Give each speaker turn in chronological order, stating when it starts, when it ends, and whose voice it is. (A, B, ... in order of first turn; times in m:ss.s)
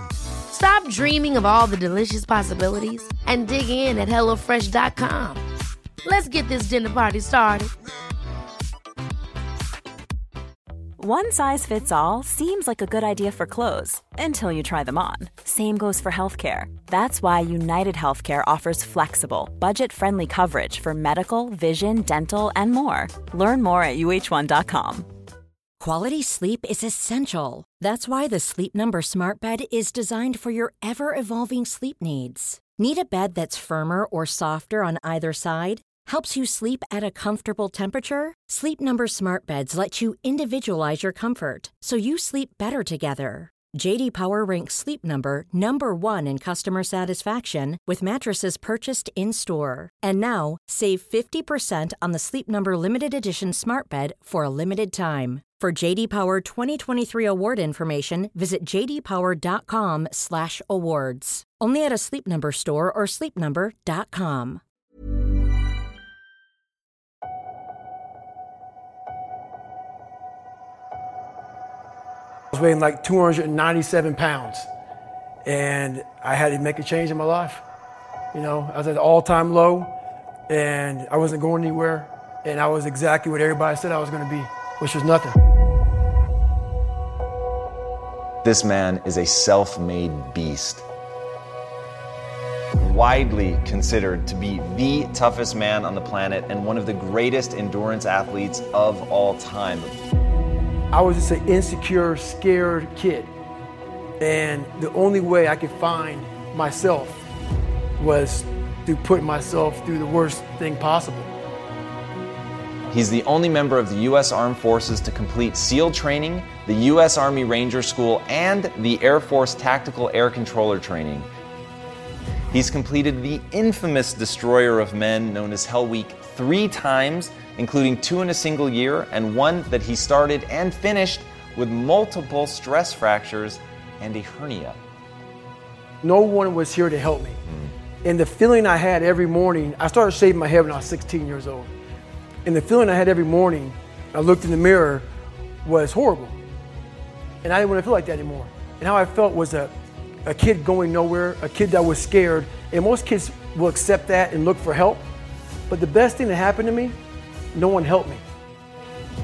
0:00.5-0:05.4 A
0:06.0-0:07.7 A
0:11.0-0:25.1 B
0:25.8-1:04.6 C
1:12.5-1:14.7 D
1:15.4-1:17.6 D
1:18.3-1:19.9 D
1:20.5-1:25.4 D
1:28.4-1:30.8 E
1:32.8-1:39.9 E
1:40.9-1:43.3 D
1:44.2-1:47.2 D
1:48.0-1:51.3 D
1:52.9-2:01.3 E
2:02.5-2:14.8 E
2:16.0-2:17.4 D
2:18.0-2:21.7 D
2:22.4-2:25.1 D
2:25.6-2:26.4 D
2:27.4-2:29.7 D
2:30.3-2:35.1 D
2:35.7-2:37.0 D
2:37.5-2:38.2 D